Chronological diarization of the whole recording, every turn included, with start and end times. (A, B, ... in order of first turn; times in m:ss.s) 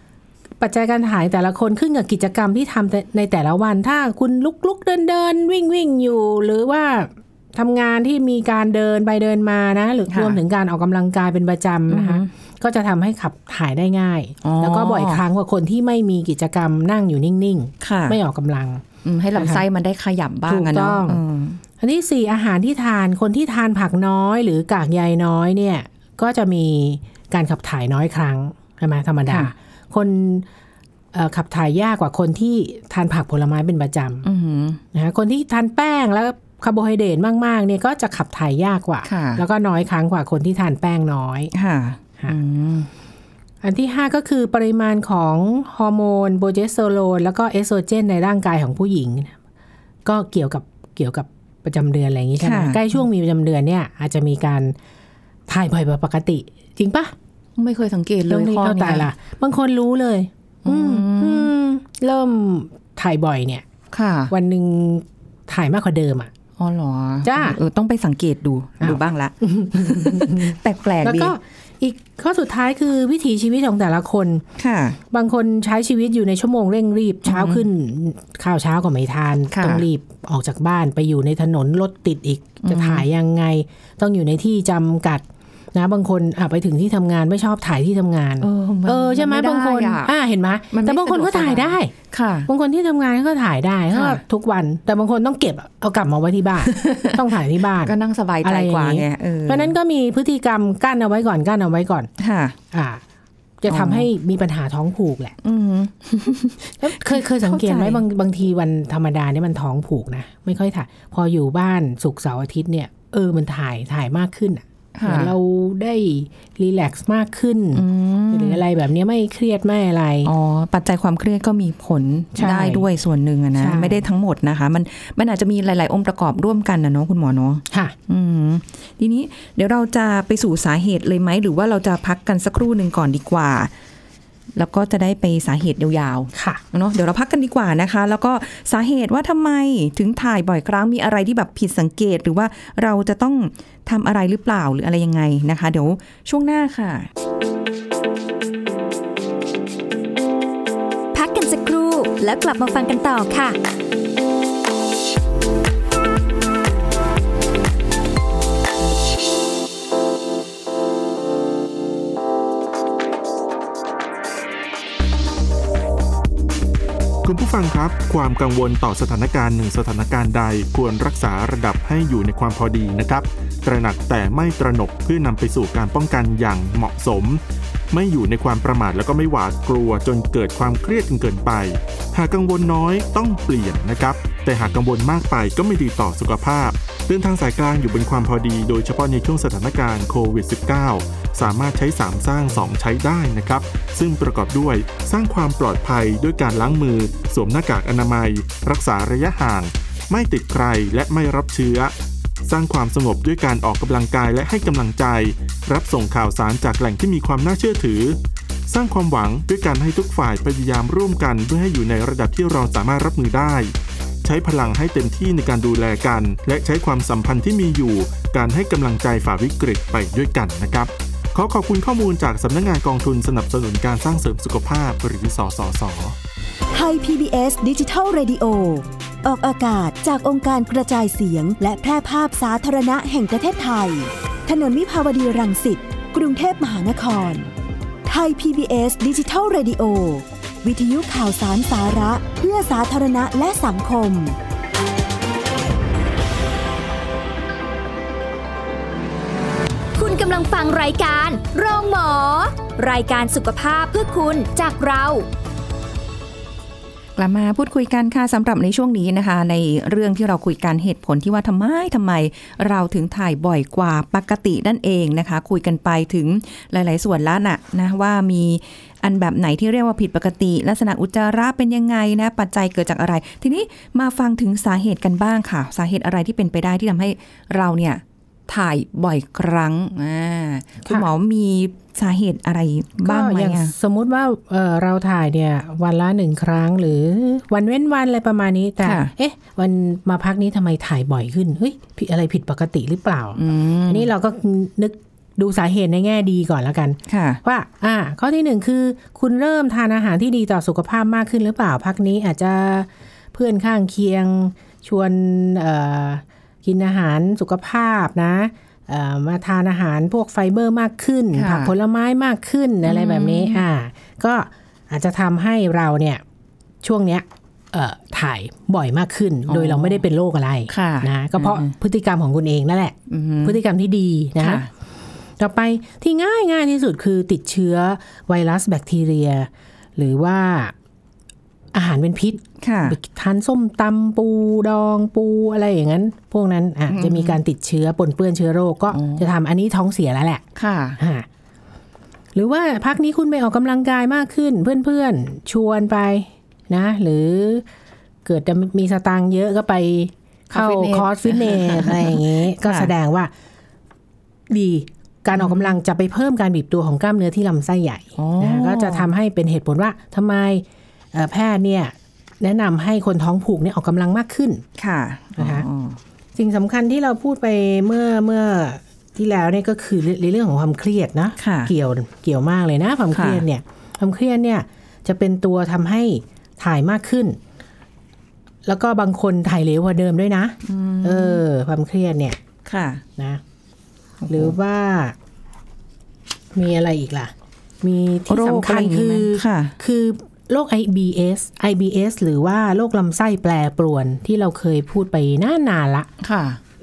0:00.6-0:18.8 A
0:10.1-0:10.4 B
0:11.9-0:12.3 B
0:14.4-0:15.2 B
0:17.8-0:18.2 B
0:19.0-0:21.6 B
0:19.4-0:19.6 A
0:20.5-0:21.2 A
0:21.8-0:30.5 A
0:31.1-0:34.2 A
0:34.2-0:34.8 B
0:34.9-0:41.5 A
0:39.0-0:39.4 B
0:41.5-0:42.9 B
0:43.6-0:49.4 A
0:50.0-0:54.7 A
0:52.4-0:52.8 B
0:55.5-0:57.1 A
0:57.6-0:59.1 B
0:58.3-1:03.7 A
1:00.6-1:01.5 B
1:03.9-1:04.3 B
1:04.3-1:06.3 A
1:06.6-1:11.4 B
1:07.2-1:07.6 A
1:08.8-1:14.4 A
1:14.6-1:15.0 B
1:15.1-1:31.9 A
1:17.2-1:17.6 B
1:19.5-1:19.9 B
1:22.6-1:23.1 B
1:28.4-1:30.1 B
1:30.7-1:32.5 B
1:32.5-1:42.1 A
1:33.9-1:34.2 B
1:36.7-1:37.2 B
1:37.8-1:39.7 B
1:42.2-1:42.6 B
1:42.7-1:43.0 A
1:43.6-1:45.4 A
1:43.7-1:44.1 B
1:45.4-1:48.0 B
1:46.8-2:00.3 A
1:55.0-1:55.3 B
1:57.8-1:58.6 B
2:00.2-2:13.7 B
2:02.4-2:02.9 A
2:03.6-2:04.1 A
2:14.6-2:27.1 B
2:16.3-2:16.6 A
2:31.1-2:33.6 C
2:47.2-3:21.9 D
3:22.5-3:28.2 D
3:28.7-3:33.7 D
3:34.2-3:46.2 D
3:46.7-3:57.5 E
3:58.1-4:04.4 E
4:10.0-4:15.3 C
4:17.2-4:43.7 B
4:43.0-5:16.2 A
4:48.8-4:49.1 B
4:53.4-4:54.1 B
4:57.1-4:57.4 B
5:11.3-5:11.7 B
5:12.8-5:13.6 B
5:16.8-5:24.6 A
5:19.5-5:20.0 B
5:20.7-5:21.7 B
5:23.1-5:23.6 B
5:24.4-5:24.7 B
5:25.4-5:30.7 A
5:31.7-5:40.4 A
5:32.6-5:33.0 B
5:36.9-5:37.4 B
5:38.9-5:39.3 B
5:40.6-5:41.0 B
5:41.0-5:41.3 A
5:42.3-5:47.6 A
5:48.2-5:53.3 A
5:50.5-5:52.9 B
5:54.5-6:04.6 A
5:55.4-5:55.8 B
5:58.2-5:59.1 B
6:04.8-6:06.0 B
6:05.4-6:05.6 A
6:06.4-6:17.4 A
6:11.4-6:11.7 B
6:13.1-6:13.4 B
6:18.6-6:22.4 A
6:20.6-6:21.4 B
6:22.6-6:23.0 B
6:24.2-6:24.5 B
6:24.3-6:25.2 A
6:26.5-6:36.1 A
6:28.3-6:29.8 B
6:36.2-6:36.6 B